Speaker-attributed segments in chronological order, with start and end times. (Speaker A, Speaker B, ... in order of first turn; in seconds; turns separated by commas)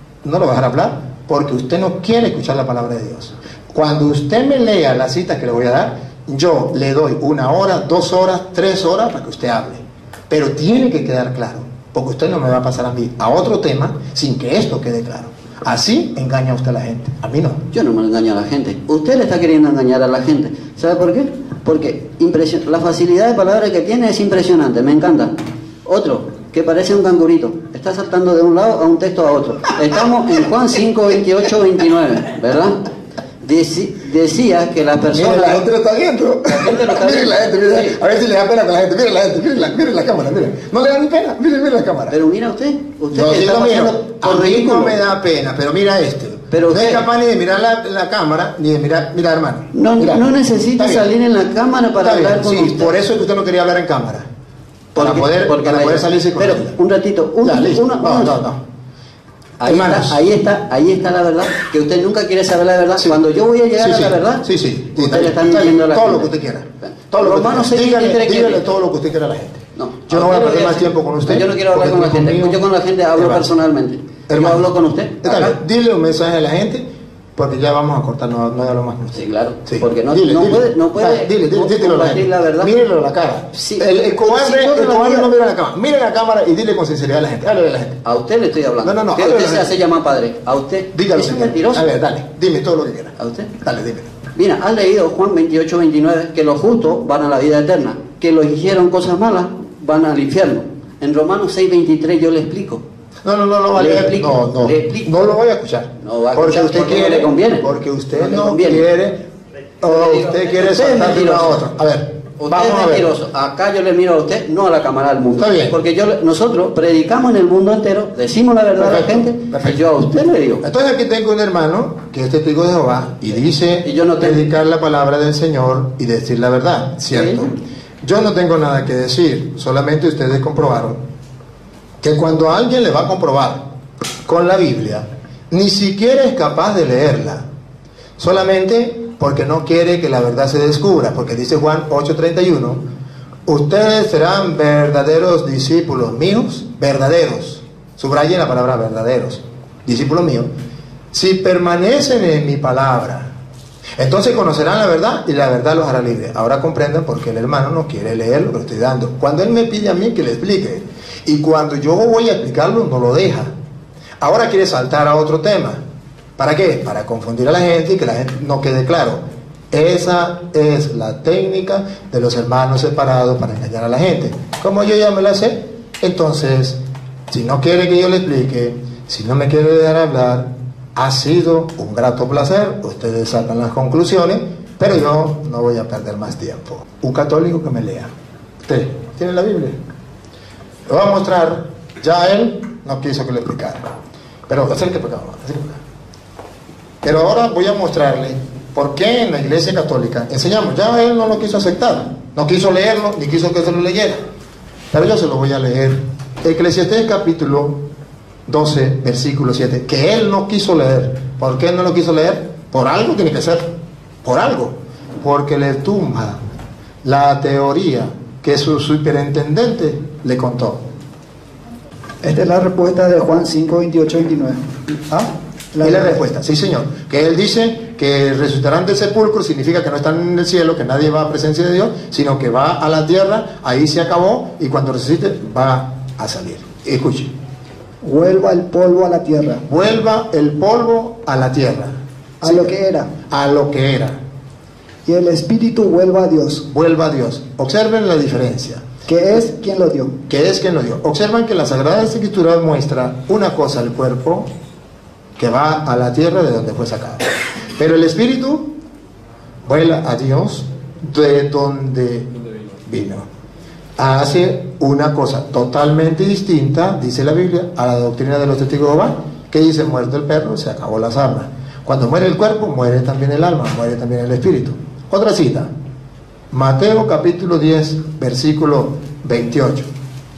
Speaker A: 0.2-17.6, Speaker B: 17.7-32.8, Speaker B: 33.4-35.7, Speaker A: 35.1-42.1, Speaker B: 36.5-38.0, Speaker B: 42.1-45.0, Speaker A: 43.1-51.1, Speaker B: 46.5-47.0, Speaker B: 49.7-53.0, Speaker A: 51.9-54.3, Speaker A: 54.9-56.8, Speaker B: 55.0-58.4, Speaker A: 57.4-58.6, Speaker B: 59.6-68.6, Speaker A: 59.6-60.2, Speaker A: 63.8-72.6, Speaker B: 69.8-75.5, Speaker A: 73.1-73.5, Speaker A: 74.3-88.0, Speaker B: 79.1-82.7, Speaker B: 83.5-85.3, Speaker B: 88.0-91.9, Speaker A: 88.8-89.8, Speaker A: 90.9-94.1, Speaker B: 93.2-93.5, Speaker B: 94.3-102.8, Speaker A: 103.2-109.2, Speaker B: 103.7-105.3, Speaker B: 106.0-108.8, Speaker A: 109.8-113.1, Speaker B: 109.8-111.6, Speaker B: 112.4-120.6, Speaker A: 115.3-115.8, Speaker A: 118.8-119.8, Speaker A: 120.6-131.0, Speaker B: 123.8-124.4, Speaker B: 127.1-127.5, Speaker A: 132.0-133.6, Speaker A: 134.2-137.4, Speaker A: 138.2-142.8, Speaker A: 143.4-150.5, Speaker A: 151.1-153.3, Speaker A: 154.0-163.5, Speaker A: 164.2-165.8, Speaker A: 166.4-188.1, Speaker A: 188.6-189.8, Speaker A: 190.9-193.8, Speaker A: 194.5-195.8, Speaker A: 197.0-204.2, Speaker A: 204.9-207.8, Speaker A: 208.5-213.7, Speaker A: 214.2-216.4, Speaker A: 217.0-220.8, Speaker C: 222.2-224.7, Speaker C: 225.7-226.2, Speaker A: 225.8-237.3, Speaker C: 238.0-239.7, Speaker A: 239.7-242.8, Speaker C: 242.4-243.1, Speaker A: 243.3-244.2, Speaker C: 245.1-246.7, Speaker A: 246.7-248.8, Speaker C: 249.1-250.1, Speaker A: 250.3-254.5, Speaker A: 255.4-258.7, Speaker A: 259.6-262.3, Speaker A: 262.9-263.3, Speaker A: 264.0-275.7, Speaker A: 276.5-279.9